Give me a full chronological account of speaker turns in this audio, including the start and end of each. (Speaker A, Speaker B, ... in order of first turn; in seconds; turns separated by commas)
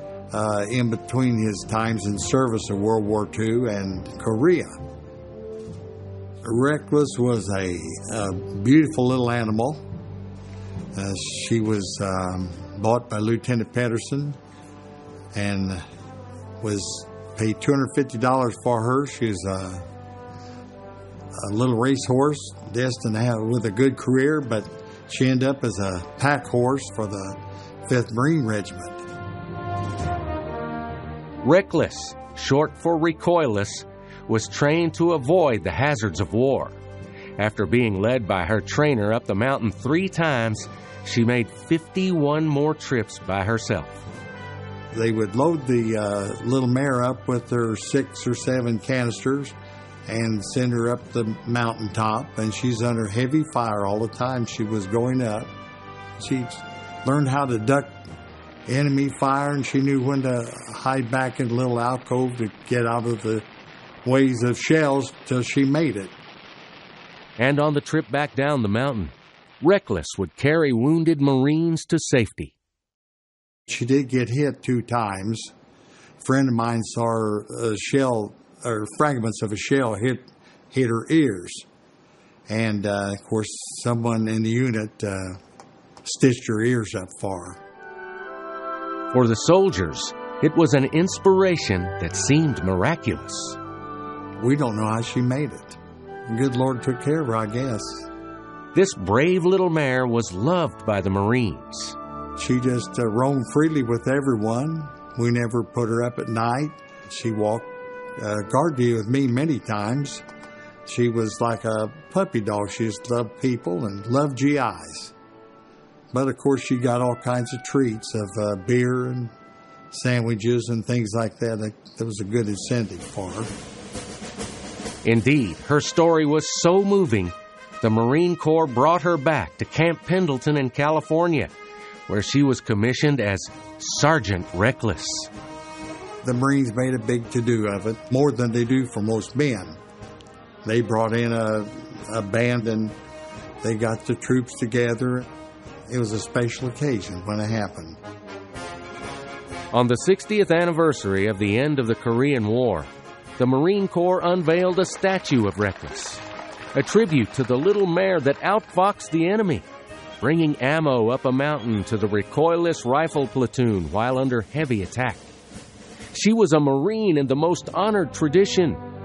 Speaker A: 0.3-4.8, Speaker A: 6.4-9.8, Speaker A: 10.9-14.4, Speaker A: 15.3-15.8, Speaker A: 16.6-19.9, Speaker A: 21.4-29.1, Speaker B: 31.4-36.8, Speaker B: 37.4-44.1, Speaker A: 44.9-49.5, Speaker A: 50.1-55.5, Speaker A: 56.2-58.0, Speaker A: 58.7-63.5, Speaker A: 64.0-66.2, Speaker B: 67.4-72.5, Speaker A: 73.7-75.5, Speaker A: 76.2-81.7, Speaker A: 82.5-85.4, Speaker A: 86.0-87.6, Speaker B: 89.1-93.6, Speaker A: 94.4-98.1, Speaker B: 98.7-102.0, Speaker A: 102.4-110.2, Speaker A: 110.9-115.1, Speaker A: 116.1-119.3, Speaker A: 119.9-123.5, Speaker B: 125.0-131.5, Speaker B: 132.1-135.3, Speaker A: 136.2-139.8, Speaker A: 140.6-142.9, Speaker A: 143.6-145.3, Speaker A: 145.9-148.0, Speaker B: 149.7-156.2, Speaker B: 156.7-159.7, Speaker B: 160.2-165.3, Speaker B: 166.1-168.8